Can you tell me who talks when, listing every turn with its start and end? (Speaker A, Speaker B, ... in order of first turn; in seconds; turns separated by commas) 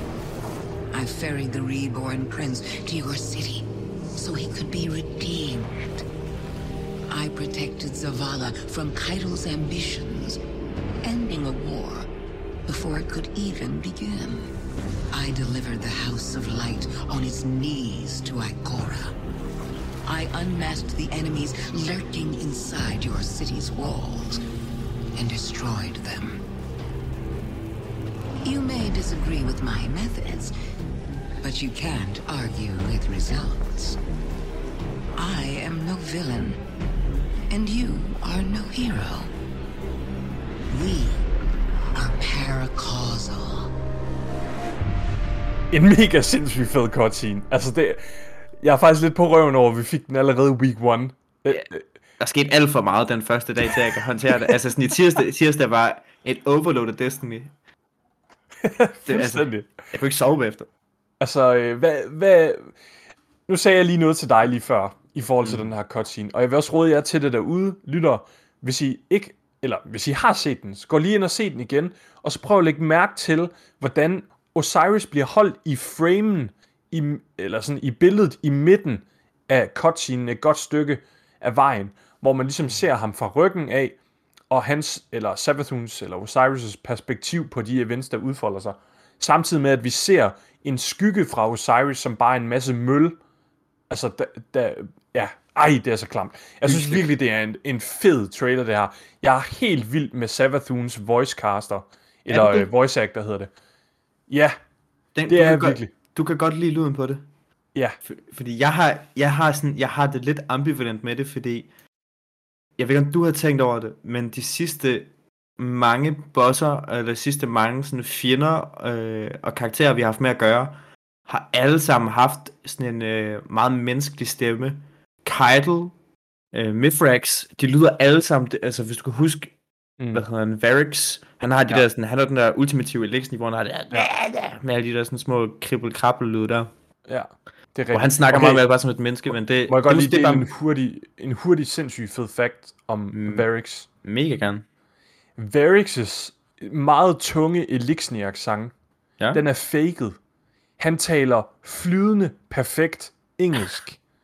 Speaker A: 0.9-6.0, Speaker A: 7.1-10.4, Speaker A: 11.0-12.1, Speaker A: 12.7-14.5, Speaker A: 15.1-19.2, Speaker A: 20.1-24.4, Speaker A: 25.2-26.4, Speaker A: 28.4-30.6, Speaker A: 31.4-34.0, Speaker A: 35.2-36.6, Speaker A: 37.5-39.3, Speaker A: 40.7-41.2, Speaker A: 41.9-43.7, Speaker B: 45.7-51.8, Speaker C: 52.2-57.5, Speaker B: 58.6-59.7, Speaker C: 59.1-60.7, Speaker B: 61.2-62.7, Speaker B: 63.5-84.0, Speaker B: 84.5-93.2, Speaker B: 93.9-103.5, Speaker C: 96.6-97.1, Speaker C: 102.3-102.7, Speaker B: 104.3-104.6, Speaker C: 105.2-107.2, Speaker B: 105.3-105.9, Speaker C: 108.1-111.7, Speaker C: 112.8-126.0, Speaker C: 126.5-129.5, Speaker C: 130.1-136.7, Speaker B: 137.1-138.6, Speaker C: 137.9-140.5, Speaker B: 139.7-143.9, Speaker C: 143.1-143.5, Speaker C: 144.0-144.7, Speaker B: 145.4-148.7, Speaker B: 149.3-150.2, Speaker B: 150.8-154.0